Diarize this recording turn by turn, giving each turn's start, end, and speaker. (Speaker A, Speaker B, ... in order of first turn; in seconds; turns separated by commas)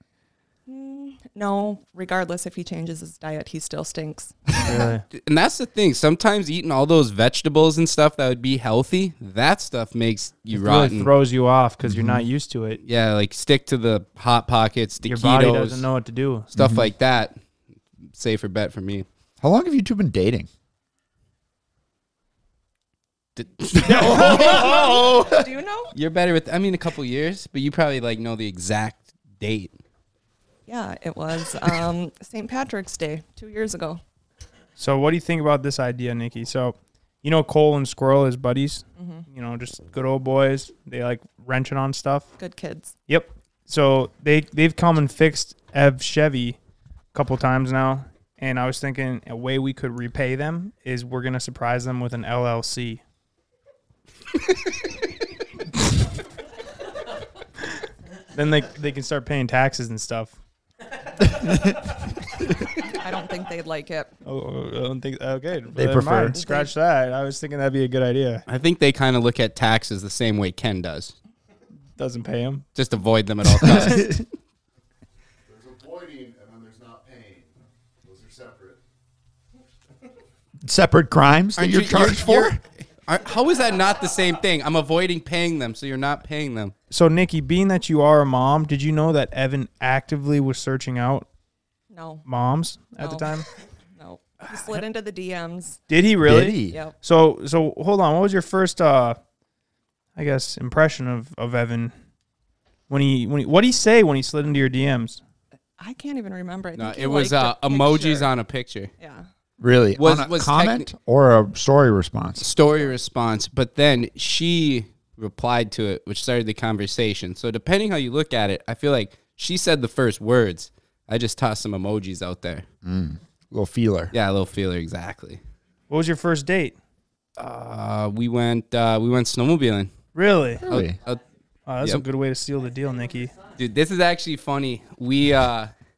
Speaker A: 0.7-4.5, Speaker B: 4.6-5.0, Speaker C: 5.1-11.1, Speaker B: 10.5-12.8, Speaker D: 11.8-12.2, Speaker C: 12.8-15.9, Speaker B: 15.1-16.5, Speaker C: 16.5-17.4, Speaker D: 16.6-16.9, Speaker C: 18.1-19.1, Speaker D: 19.4-20.5, Speaker C: 23.4-24.6, Speaker D: 23.7-25.5, Speaker B: 23.8-24.5, Speaker A: 24.2-25.9, Speaker C: 25.9-29.8, Speaker A: 30.7-34.0, Speaker B: 34.8-42.3, Speaker A: 39.0-39.2, Speaker A: 42.4-42.9, Speaker B: 43.1-46.6, Speaker B: 47.1-53.0, Speaker B: 58.3-60.4, Speaker A: 63.0-64.1, Speaker B: 64.2-68.4, Speaker D: 65.7-66.4, Speaker A: 66.4-66.7, Speaker C: 68.5-71.2, Speaker B: 72.0-72.7, Speaker C: 72.8-74.2, Speaker D: 73.6-74.2, Speaker B: 73.7-73.9, Speaker E: 75.5-78.8, Speaker D: 80.6-82.6, Speaker C: 81.6-82.6, Speaker C: 83.1-86.7, Speaker B: 86.9-91.3, Speaker A: 91.9-92.2, Speaker B: 92.3-93.5, Speaker A: 93.0-93.4, Speaker A: 94.0-95.8, Speaker B: 94.5-94.8, Speaker B: 95.9-99.2, Speaker D: 96.2-96.8, Speaker A: 96.7-96.9, Speaker B: 100.2-101.9, Speaker B: 102.9-105.2, Speaker A: 105.8-108.3, Speaker C: 106.8-108.9, Speaker A: 109.0-109.3, Speaker D: 109.6-112.5, Speaker C: 110.0-110.9, Speaker C: 112.4-122.7, Speaker D: 122.8-124.1, Speaker C: 124.1-125.4, Speaker B: 125.9-126.8, Speaker C: 127.4-129.9, Speaker B: 130.2-130.7, Speaker D: 130.6-131.0, Speaker C: 130.7-131.2, Speaker B: 131.7-133.4, Speaker C: 133.5-135.7